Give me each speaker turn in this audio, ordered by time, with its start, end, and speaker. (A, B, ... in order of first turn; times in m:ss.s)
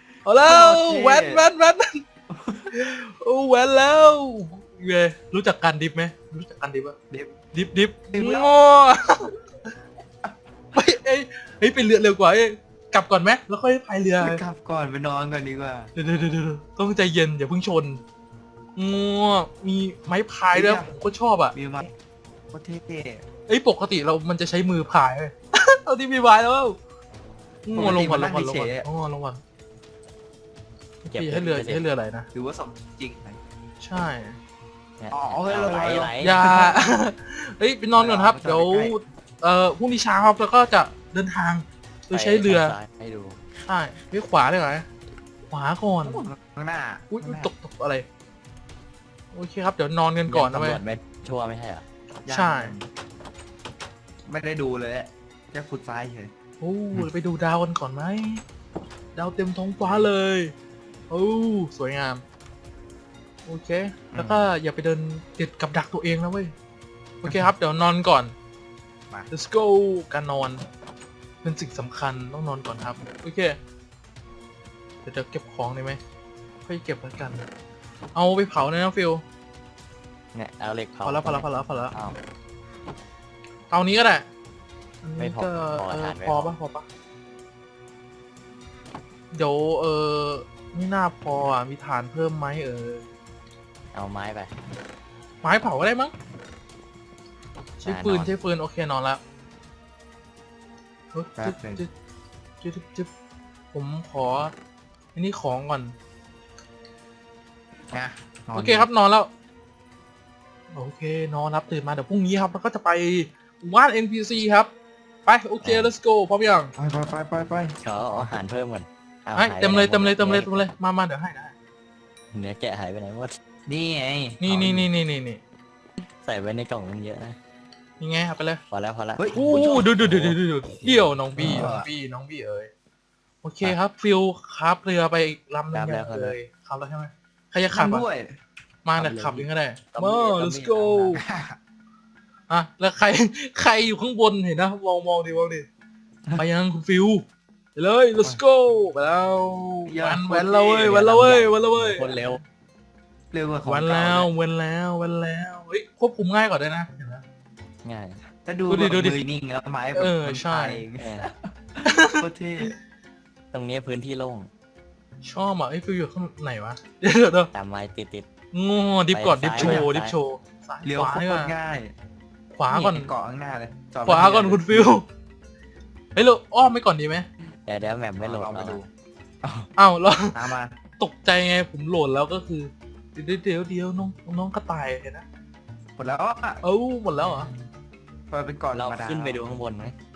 0:00.2-0:02.0 A
0:00.4-0:01.4 B
0:02.3-0:02.9 B
0:02.7-0:07.0 A
0:07.1-0:07.4 B
0:07.5-0:09.3 A
0:08.1-0:08.5 B
0:10.7-0:14.4 A
0:14.2-0:15.9 B
0:15.9-0:18.0 A
0:18.8-0:21.5 A
0:20.5-0:20.9 B
0:21.5-0:21.9 B
0:22.5-0:23.2 B
0:23.5-0:26.8 A
0:27.6-0:29.4 A
0:27.7-0:28.9 B
0:31.0-0:32.3 A
0:31.1-0:31.8 C
0:32.3-0:33.4 B
0:33.8-0:34.4 A
0:35.0-0:36.4 C
0:35.1-0:37.0 B
0:36.2-0:42.8 A
0:37.9-0:39.0 B
0:42.1-0:43.4 C
0:43.6-0:44.9 A
0:45.5-0:46.3 A
0:46.0-0:47.5 B
0:47.1-0:48.0 A
0:49.3-0:50.8 A
0:50.3-0:51.8 C
0:52.2-0:52.9 B
0:52.3-0:52.7 A
0:54.2-0:56.3 B
0:56.6-0:58.4 A
0:59.1-1:00.5 A
0:59.8-1:00.1 C
1:01.1-1:02.2 A
1:03.4-1:06.5 A
1:04.1-1:04.5 C
1:07.2-1:07.5 B
1:07.2-1:08.3 A
1:09.3-1:10.6 A
1:11.4-1:13.6 A
1:15.0-1:16.0 A
1:16.6-1:17.4 A
1:18.1-1:19.2 A
1:20.3-1:22.2 C
1:21.0-1:21.9 A
1:23.7-1:24.3 A
1:25.0-1:26.8 A
1:25.2-1:26.5 C
1:29.3-1:33.0 A
1:33.9-1:34.5 C
1:35.4-1:36.1 A
1:37.8-1:39.2 A
1:37.8-1:38.3 C
1:41.1-1:41.9 A
1:41.4-1:41.8 B
1:42.6-1:43.1 A
1:43.7-1:44.5 A
1:45.1-1:45.9 A
1:47.9-1:48.9 B
1:48.5-1:49.3 A
1:50.7-1:54.7 A
1:55.2-1:56.7 A
1:55.6-1:55.9 C
1:56.8-1:58.4 B
1:57.8-2:00.7 C
1:59.3-2:01.5 A
2:02.3-2:03.4 C
2:03.6-2:04.4 B
2:04.4-2:05.4 A
2:04.5-2:04.9 C
2:06.2-2:07.4 C
2:08.0-2:08.6 A
2:08.7-2:11.7 C
2:09.2-2:09.9 B
2:09.3-2:12.7 A
2:11.4-2:11.9 B
2:13.4-2:18.0 A
2:15.7-2:16.4 C
2:17.7-2:18.4 B
2:18.8-2:21.2 A
2:19.0-2:21.1 C
2:21.2-2:21.6 B
2:22.5-2:25.7 A
2:26.4-2:27.2 A
2:27.8-2:32.3 A
2:29.8-2:31.0 B
2:30.9-2:32.4 C
2:33.3-2:34.3 B
2:33.6-2:37.2 A
2:37.8-2:38.2 C
2:38.4-2:42.7 B
2:38.7-2:39.2 A
2:39.9-2:40.8 A
2:41.0-2:41.3 C
2:41.8-2:42.7 A
2:43.5-2:44.5 C
2:45.2-2:47.5 A
2:47.5-2:48.2 C
2:48.5-2:51.5 A
2:49.1-2:50.1 C
2:49.6-2:49.9 B
2:50.8-2:51.9 B
2:52.5-2:53.1 A
2:52.7-2:55.0 B
2:54.0-2:55.0 A
2:56.1-2:57.2 A
2:57.6-2:58.8 C
2:58.2-2:58.9 B
2:59.4-2:59.7 B
2:59.8-3:00.4 A
3:00.3-3:00.8 B
3:01.0-3:05.2 A
3:06.0-3:06.6 B
3:06.6-3:07.5 A
3:08.3-3:09.6 B
3:08.7-3:09.9 C